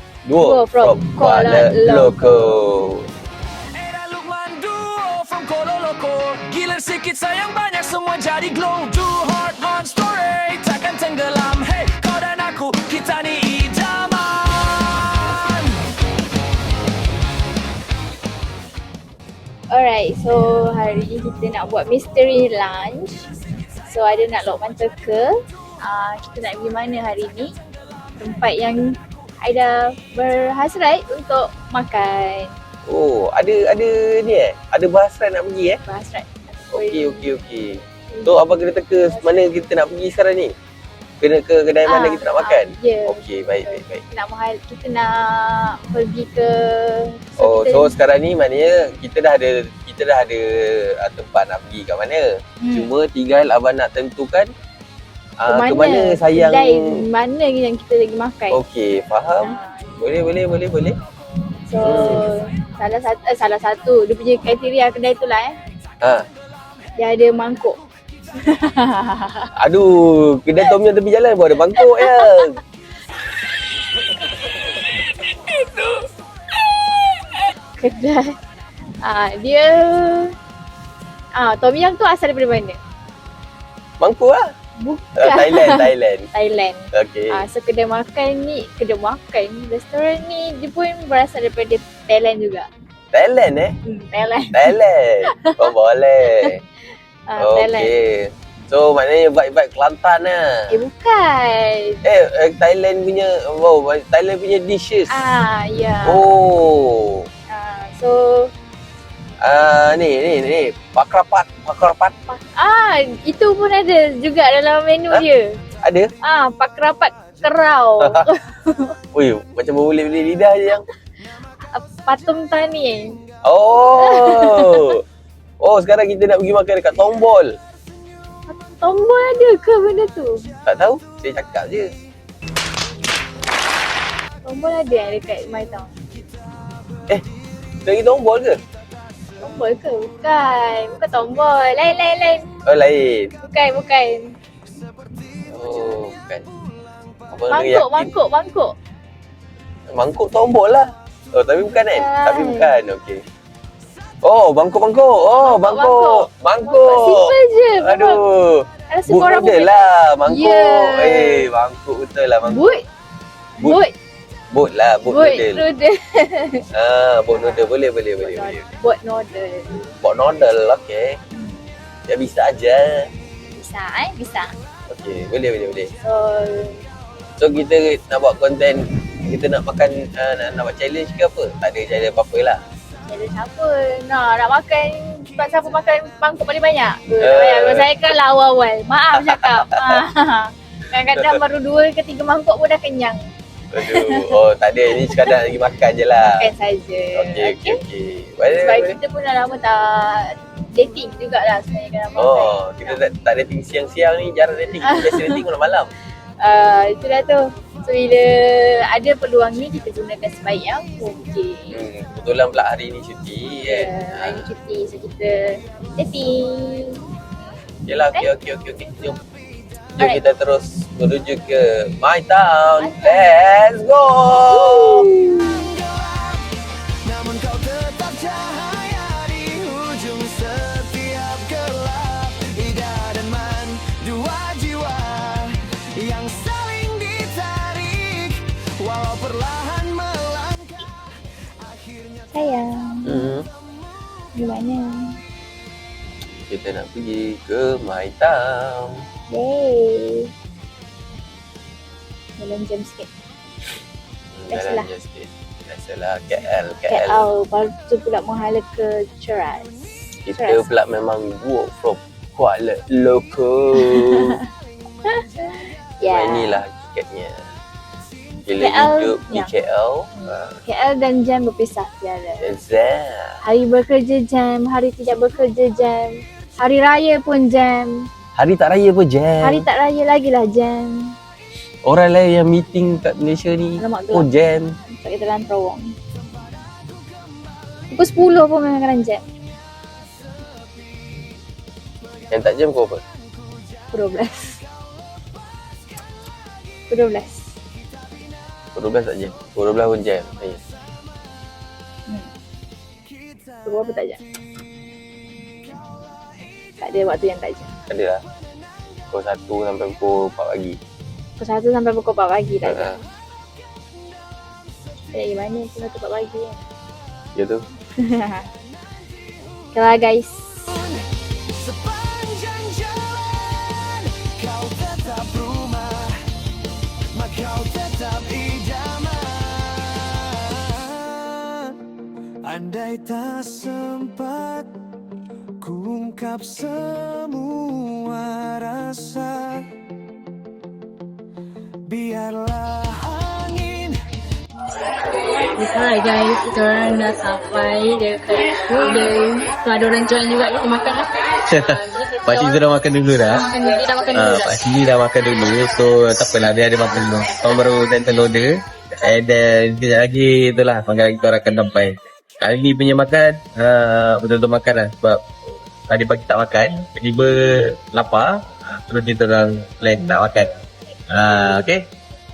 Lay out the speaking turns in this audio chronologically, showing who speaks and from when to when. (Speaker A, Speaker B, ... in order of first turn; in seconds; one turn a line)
Speaker A: 0.3-3.1
Speaker B: 0.4-2.4
Speaker C: 3.7-15.8
Speaker B: 19.7-23.3
Speaker B: 23.9-27.5
Speaker B: 28.2-32.5
Speaker A: 32.9-35.8
Speaker B: 35.9-37.4
Speaker A: 36.7-40.5
Speaker B: 38.1-39.5
Speaker A: 41.2-44.0
Speaker B: 41.9-48.0
Speaker A: 47.4-54.5
Speaker B: 52.6-52.9
Speaker A: 55.4-57.0
Speaker B: 55.5-58.6
Speaker A: 58.5-61.0
Speaker B: 59.4-59.9
Speaker B: 61.7-65.6
Speaker A: 61.8-62.2
Speaker B: 67.0-67.8
Speaker B: 68.4-69.5
Speaker A: 69.6-72.5
Speaker B: 71.8-72.5
Speaker B: 75.5-75.9
Speaker B: 77.8-78.3
Speaker B: 79.0-80.3
Speaker B: 81.4-82.8
Speaker A: 84.0-84.4
Speaker B: 84.8-92.7
Speaker A: 85.2-86.3
Speaker A: 86.9-87.4
Speaker A: 93.1-93.7
Speaker B: 93.8-94.7
Speaker A: 94.5-96.6
Speaker B: 95.3-95.7
Speaker B: 97.3-97.9
Speaker A: 97.4-98.1
Speaker A: 98.7-100.8
Speaker B: 100.7-102.0
Speaker A: 102.0-105.1
Speaker B: 105.1-106.2
Speaker A: 106.0-107.2
Speaker B: 107.5-108.5
Speaker A: 109.4-112.1
Speaker B: 112.3-115.4
Speaker A: 115.8-116.1
Speaker B: 116.2-119.0
Speaker A: 119.1-120.8
Speaker B: 121.7-123.2
Speaker A: 123.5-125.0
Speaker B: 124.0-124.8
Speaker A: 125.6-127.6
Speaker B: 128.5-130.4
Speaker A: 130.7-131.9
Speaker B: 134.4-135.9
Speaker A: 137.8-138.6
Speaker B: 139.4-142.5
Speaker A: 142.7-143.3
Speaker B: 143.4-144.2
Speaker A: 145.5-146.4
Speaker A: 147.3-148.1
Speaker B: 147.5-148.7
Speaker A: 149.9-153.2
Speaker B: 151.8-152.7
Speaker A: 154.2-162.7
Speaker B: 155.4-158.2
Speaker B: 158.9-161.5
Speaker B: 162.5-162.8
Speaker B: 163.6-163.9
Speaker A: 164.5-165.7
Speaker B: 165.1-166.6
Speaker A: 166.7-168.6
Speaker B: 167.4-167.7
Speaker B: 168.2-169.8
Speaker A: 170.0-171.2
Speaker A: 172.1-173.1
Speaker B: 173.6-174.5
Speaker A: 174.9-175.9
Speaker B: 176.0-176.8
Speaker A: 177.4-182.6
Speaker B: 183.1-193.2
Speaker A: 187.2-187.9
Speaker A: 193.7-196.5
Speaker B: 193.8-194.3
Speaker B: 195.0-195.3
Speaker B: 196.2-197.8
Speaker A: 197.1-199.0
Speaker B: 198.6-203.0
Speaker A: 202.2-205.9
Speaker B: 204.8-205.4
Speaker B: 206.4-211.8
Speaker A: 211.7-214.5
Speaker B: 213.7-217.0
Speaker A: 217.9-219.2
Speaker A: 220.0-225.1
Speaker B: 222.8-223.3
Speaker B: 224.5-225.7
Speaker C: 225.2-241.1
Speaker C: 241.6-242.6
Speaker B: 242.3-243.3
Speaker A: 243.1-243.5
Speaker B: 244.3-245.2
Speaker A: 246.5-249.0
Speaker B: 249.3-250.3
Speaker B: 252.4-253.1
Speaker A: 254.3-257.3
Speaker B: 254.5-254.9
Speaker B: 256.9-259.8
Speaker A: 260.3-264.4
Speaker B: 260.3-260.7
Speaker B: 263.8-264.3
Speaker B: 266.0-266.6
Speaker A: 266.0-267.4
Speaker A: 268.5-270.5
Speaker B: 268.6-269.5
Speaker B: 270.2-272.4
Speaker A: 272.4-273.3
Speaker B: 273.4-278.1
Speaker A: 278.4-279.6
Speaker B: 279.4-281.1
Speaker A: 281.8-284.7
Speaker B: 283.8-284.3
Speaker B: 284.9-285.9
Speaker B: 287.9-289.2
Speaker A: 292.3-293.0
Speaker B: 293.9-294.6
Speaker B: 296.9-297.5
Speaker A: 298.8-300.6
Speaker B: 303.6-304.2
Speaker B: 306.8-307.7
Speaker A: 307.9-308.2
Speaker A: 309.1-310.8
Speaker B: 311.4-313.0
Speaker A: 312.6-313.0
Speaker B: 315.1-316.6
Speaker A: 317.4-317.6
Speaker B: 318.0-318.5
Speaker B: 319.7-320.8
Speaker C: 321.5-326.2
Speaker C: 327.1-331.8
Speaker C: 332.4-334.7
Speaker C: 335.6-339.7
Speaker C: 341.9-344.0
Speaker D: 345.5-352.6
Speaker E: 351.5-353.5
Speaker D: 353.3-354.6
Speaker E: 354.1-365.2
Speaker E: 365.9-370.5
Speaker E: 371.1-371.9